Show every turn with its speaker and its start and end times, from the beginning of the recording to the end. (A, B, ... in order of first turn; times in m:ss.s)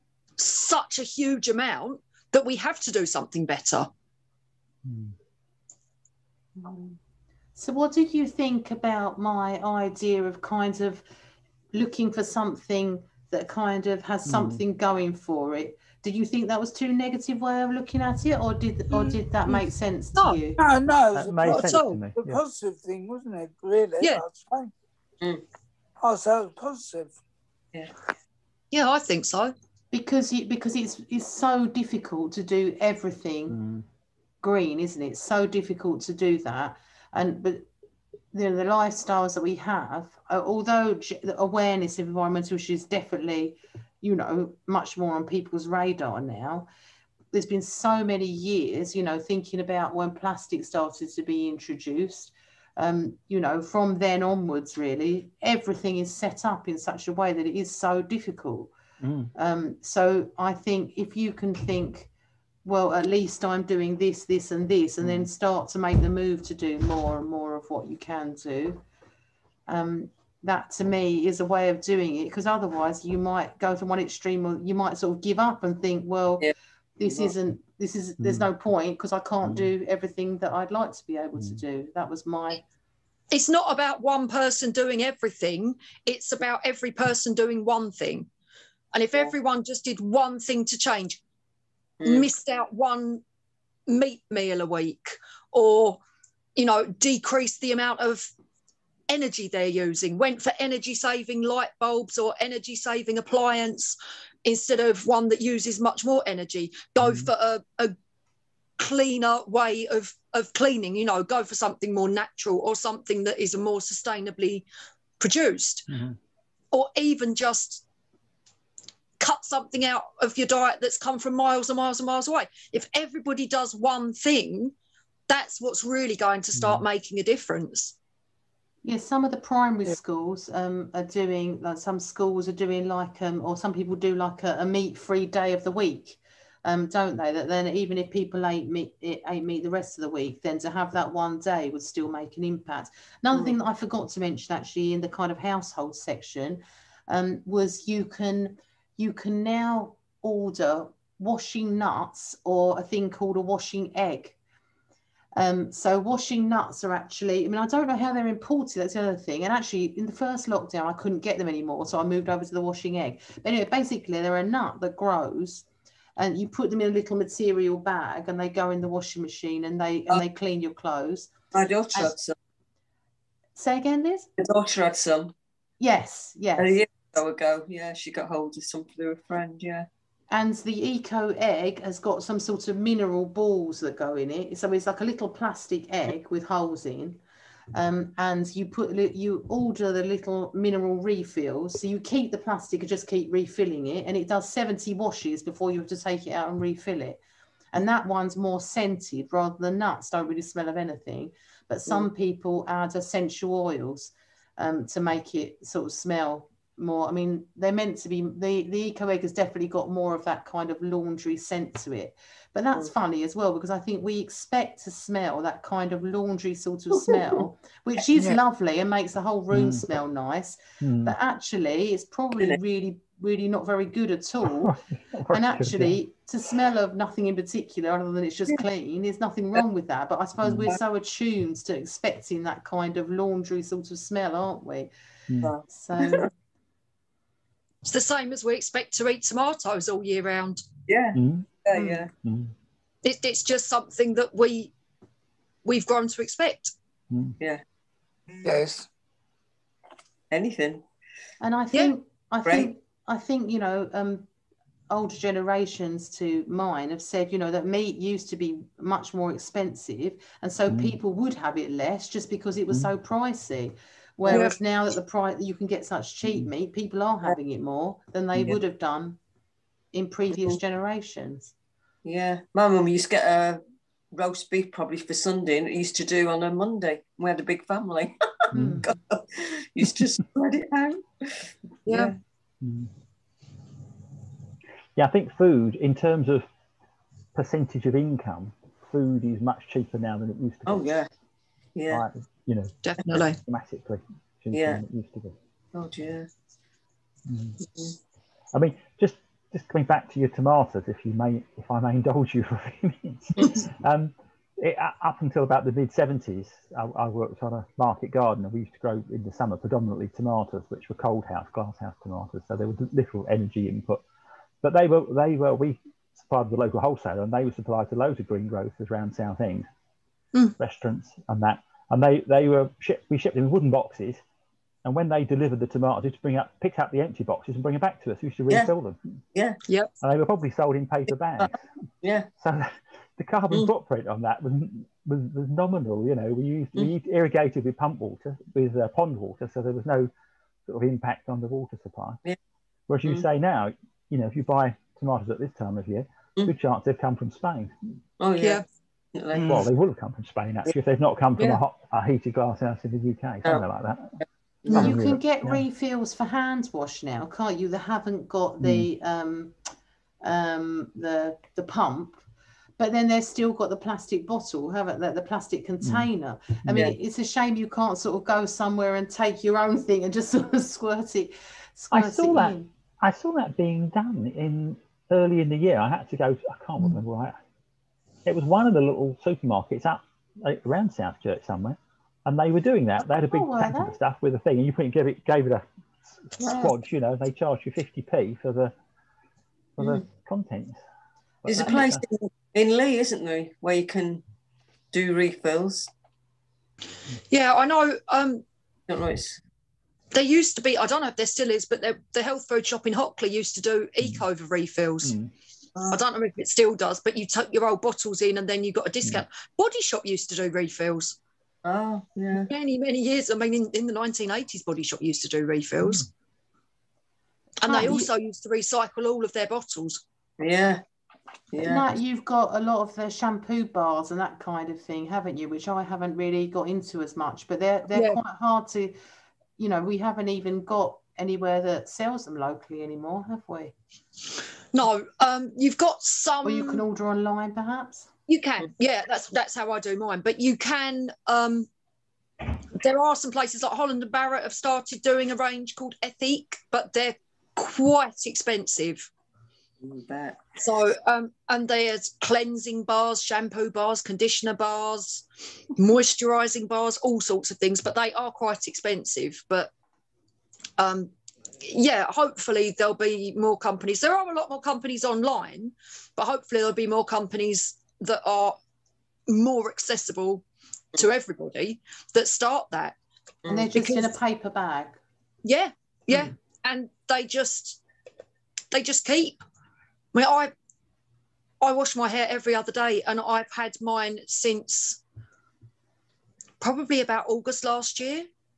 0:00.4-0:03.9 A
0:04.8-0:05.1 B
0:06.6-0:06.9 C
0:07.6-0:11.0 D
0:11.7-0:20.6 D
0:14.3-0:14.6 B
0:19.5-0:20.4 A
0:20.6-0:24.7 E
0:21.2-0:22.4 B
0:21.4-0:22.0 A
0:26.0-0:27.2 E
0:28.7-0:29.5 A
0:29.9-0:33.6 D
0:33.5-0:33.8 B
0:34.4-0:37.7 D
0:38.3-0:46.7 D
0:47.3-0:58.7 D
0:59.0-0:59.3 B
0:59.4-1:02.1 D
1:02.6-1:08.8 D
1:05.0-1:05.3 B
1:09.7-1:22.6 D
1:18.2-1:18.5 B
1:19.4-1:19.7 B
1:23.3-1:28.3 A
1:28.9-1:31.2 A
1:32.0-1:32.3 C
1:32.0-1:33.2 A
1:33.9-1:36.0 A
1:36.6-1:38.3 A
1:39.1-1:48.0 A
1:47.0-1:47.3 B
1:48.8-1:54.7 A
1:55.2-1:55.9 A
1:55.9-1:56.2 B
1:56.7-1:57.8 A
1:59.2-2:04.7 A
2:05.3-2:08.0 A
2:06.6-2:06.8 B
2:08.8-2:34.4 D
2:35.4-2:45.7 D
2:46.2-2:51.3 D
2:51.5-2:52.4 C
2:53.6-2:54.3 D
2:54.4-2:55.3 C
2:55.8-2:56.8 D
2:56.6-2:59.9 C
3:00.3-3:07.2 D
3:07.7-3:17.2 D
3:17.7-3:44.8 D
3:39.5-3:39.8 B
3:40.8-3:41.1 B
3:44.6-3:46.0 B
3:45.3-3:54.9 D
3:50.4-3:50.7 B
3:55.4-3:56.3 C
3:55.7-3:56.3 D
3:57.8-4:00.6 A
4:00.9-4:02.1 C
4:01.2-4:01.5 B
4:01.7-4:02.1 D
4:02.2-4:02.5 B
4:03.0-4:04.7 A
4:05.6-4:06.7 A
4:07.1-4:07.4 B
4:08.4-4:08.9 E
4:10.3-4:10.8 C
4:11.4-4:14.3 D
4:12.4-4:12.7 C
4:14.9-4:29.2 D
4:20.7-4:21.0 B
4:24.3-4:24.6 A
4:29.9-4:31.5 D
4:32.0-4:33.6 C
4:34.1-4:42.2 C
4:38.5-4:38.9 D
4:38.5-4:38.8 B
4:41.9-4:42.2 A
4:42.6-4:42.9 B
4:45.0-4:46.5 B
4:47.3-4:50.9 B
4:50.7-4:51.1 C
4:51.8-4:52.0 C
4:51.9-4:55.4 B
4:52.8-4:53.4 A
4:54.5-4:54.8 C
4:55.7-4:56.3 C
4:57.3-4:57.6 B
4:57.6-4:58.0 C
4:58.5-5:14.0 B
5:14.6-5:19.7 B
5:20.6-5:24.2 B
5:24.8-5:29.2 B
5:29.3-5:29.6 C
5:30.0-5:31.6 B
5:32.0-5:32.3 C
5:32.4-5:40.1 B
5:40.7-5:42.2 B
5:42.9-5:47.8 B
5:48.2-5:49.7 C
5:48.4-5:48.6 A
5:49.4-5:54.2 B
5:54.6-5:55.0 C
5:54.7-5:59.5 D
5:54.7-5:55.6 B
5:58.6-5:58.9 B
6:00.2-6:02.2 D
6:02.8-6:12.7 D
6:05.8-6:06.1 B
6:06.6-6:07.0 B
6:11.9-6:17.4 B
6:18.3-6:25.7 B
6:23.3-6:23.9 D
6:26.2-6:28.7 B
6:26.4-6:26.7 C
6:29.8-6:30.0 C
6:29.8-6:30.8 B
6:31.4-6:32.0 B
6:31.5-6:34.2 C
6:34.9-6:35.9 C
6:37.3-6:38.4 A
6:38.9-6:39.4 C
6:40.1-6:45.2 A
6:45.0-6:45.3 B
6:45.9-6:51.2 A
6:51.6-6:52.5 C
6:52.5-6:56.1 A
6:57.6-7:00.0 A
6:57.6-6:58.1 D
7:00.4-7:00.8 C
7:01.5-7:01.8 C
7:01.6-7:09.0 D
7:07.9-7:08.2 A
7:09.6-7:13.7 D
7:14.7-7:16.8 A
7:16.4-7:18.1 D
7:18.3-7:21.7 A
7:22.8-7:29.1 A
7:29.8-7:30.4 C
7:30.6-7:39.7 A
7:40.8-7:48.6 A
7:49.3-7:53.0 A
7:53.5-7:55.0 D
7:53.7-7:54.2 A
7:55.4-7:57.8 A
7:58.7-7:59.4 A
8:00.1-8:00.5 A
8:01.6-8:05.0 A
8:06.6-8:08.3 A